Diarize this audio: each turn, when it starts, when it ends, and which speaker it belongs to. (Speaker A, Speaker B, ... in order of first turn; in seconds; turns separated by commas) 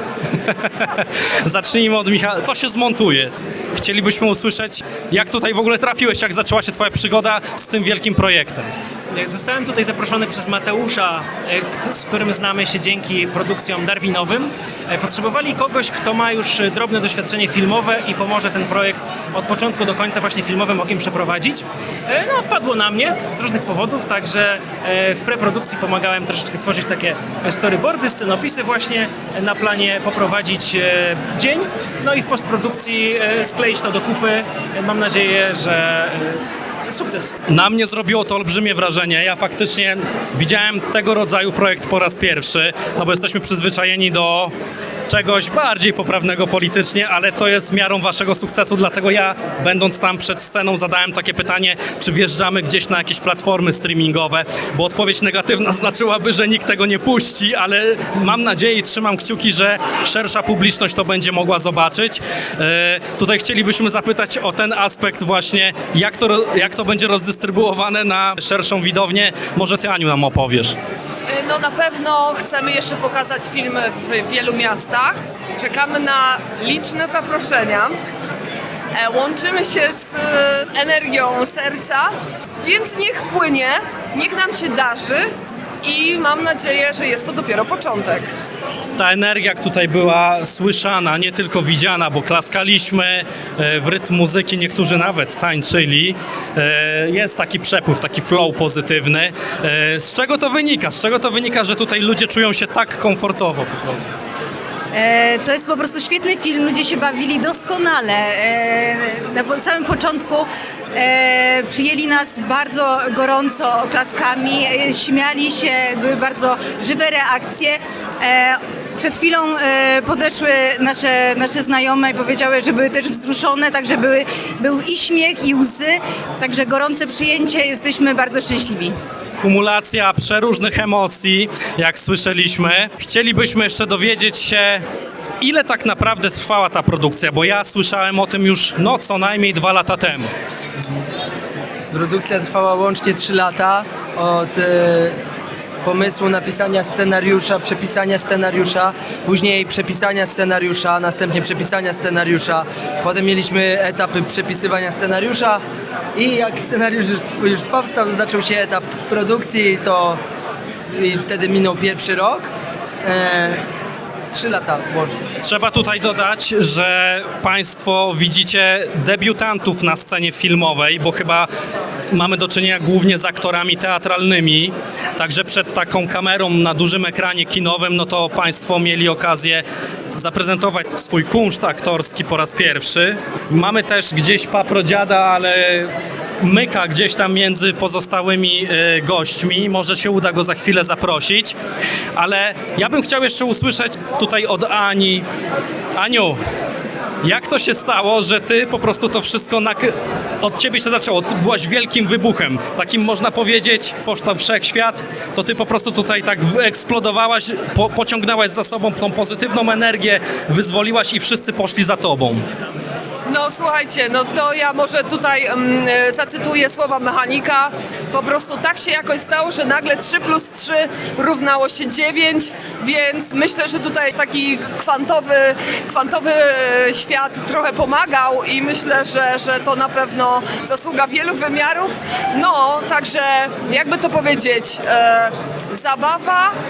Speaker A: 0.4-8.7, Speaker B: 9.1-37.3, Speaker A: 37.5-44.5, Speaker A: 45.1-70.8, Speaker C: 71.3-77.9, Speaker C: 79.0-82.1, Speaker C: 82.6-85.3, Speaker C: 85.8-88.3, Speaker A: 89.0-104.0, Speaker D: 104.9-128.9, Speaker A: 129.4-134.8, Speaker A: 135.4-140.3, Speaker E: 141.9-145.2, Speaker E: 145.8-155.6, Speaker E: 156.2-160.2, Speaker E: 160.9-162.5, Speaker E: 163.1-163.6, Speaker E: 164.3-165.2, Speaker A: 165.4-171.5, Speaker A: 172.1-179.6, Speaker A: 180.2-191.6, Speaker A: 192.2-195.3, Speaker A: 196.0-196.4, Speaker A: 197.2-212.4, Speaker C: 213.3-236.5